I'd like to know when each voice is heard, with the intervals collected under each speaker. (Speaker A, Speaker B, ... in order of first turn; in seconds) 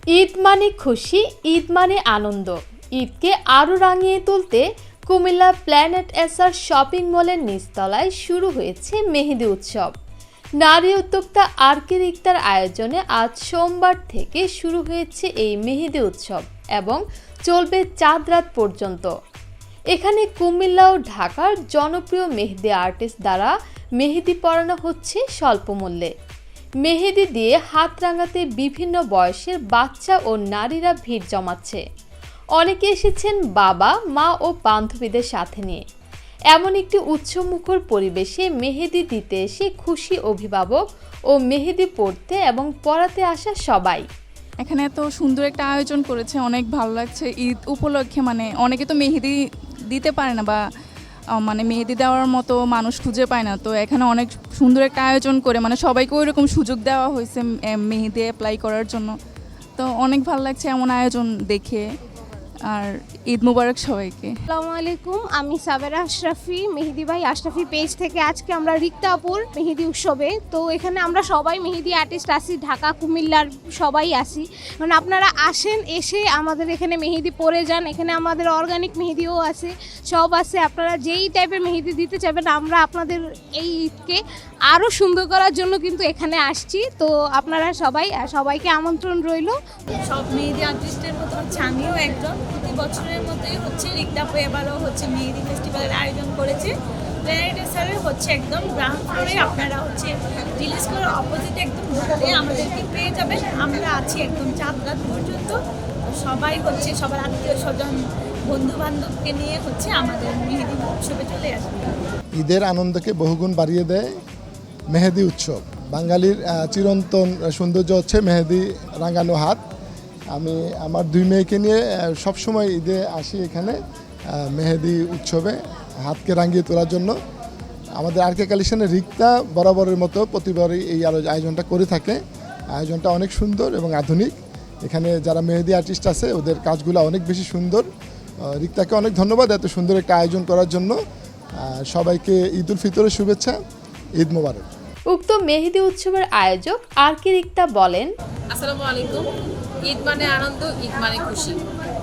Speaker A: 0.2-9.9, 10.6-19.1, 19.9-26.1, 26.9-31.8, 32.6-35.8, 36.5-44.0, 145.1-148.1
Speaker B: 44.6-49.4, 49.9-50.6, 51.4-59.1, 59.8-61.9, 62.7-64.3
Speaker C: 64.5-89.6
Speaker D: 90.1-96.7, 97.2-105.6, 106.2-112.0
Speaker E: 112.4-114.2, 114.9-119.6, 120.3-123.8, 124.3-127.1, 128.0-132.2, 132.8-137.9, 138.5-141.0, 141.6-143.6, 144.2-144.7
Speaker F: 148.5-149.2, 149.9-151.6